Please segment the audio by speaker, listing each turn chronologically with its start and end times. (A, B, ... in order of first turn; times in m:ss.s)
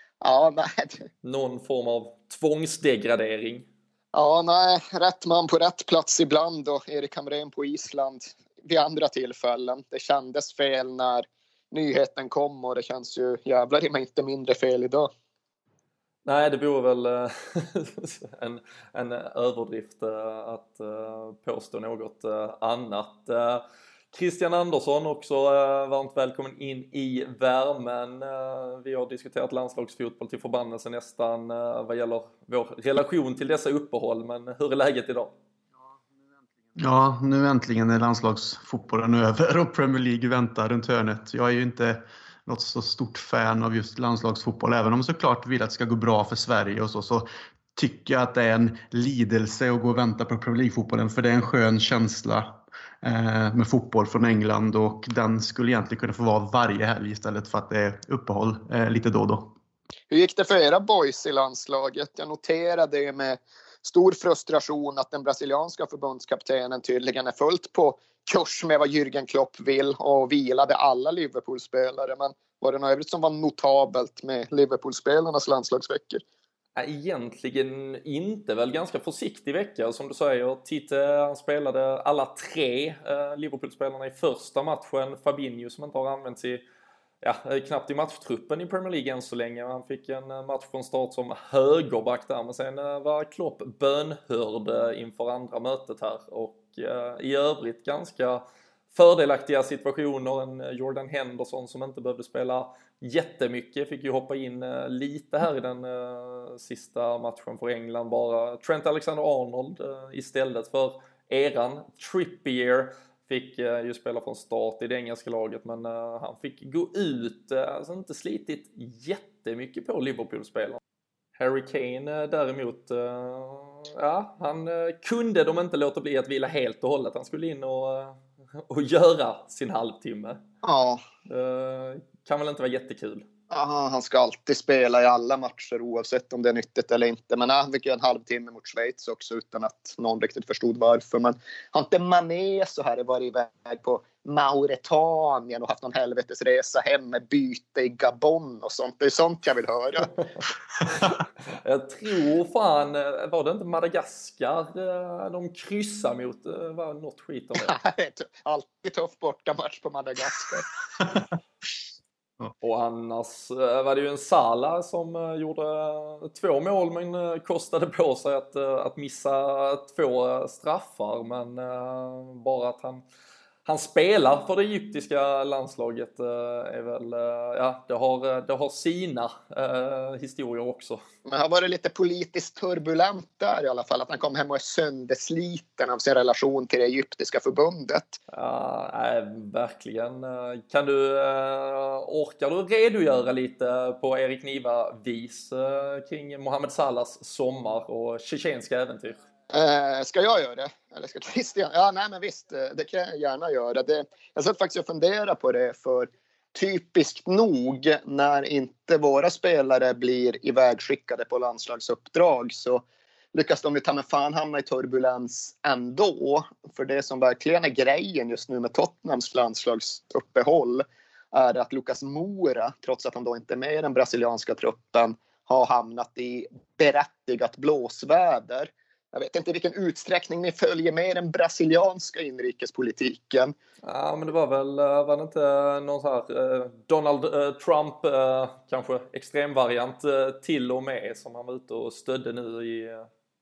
0:00.2-0:01.0 A
0:01.2-0:03.7 B
0:04.1-0:15.1 A
0:16.2-0:35.4 B
0:36.8-0:59.5 C
1:00.1-1:16.2 A
1:16.8-1:26.6 B
1:27.2-2:00.8 B
2:01.4-2:10.4 B
2:10.6-2:11.0 A
2:11.3-2:13.3 B
2:13.5-2:30.2 A
2:31.6-2:37.7 B
2:37.5-2:40.7 A
2:42.6-2:53.0 B
2:53.6-3:01.0 B
3:01.2-3:08.2 A
3:08.3-3:19.2 B
3:19.5-3:53.5 A
3:53.8-4:03.1 B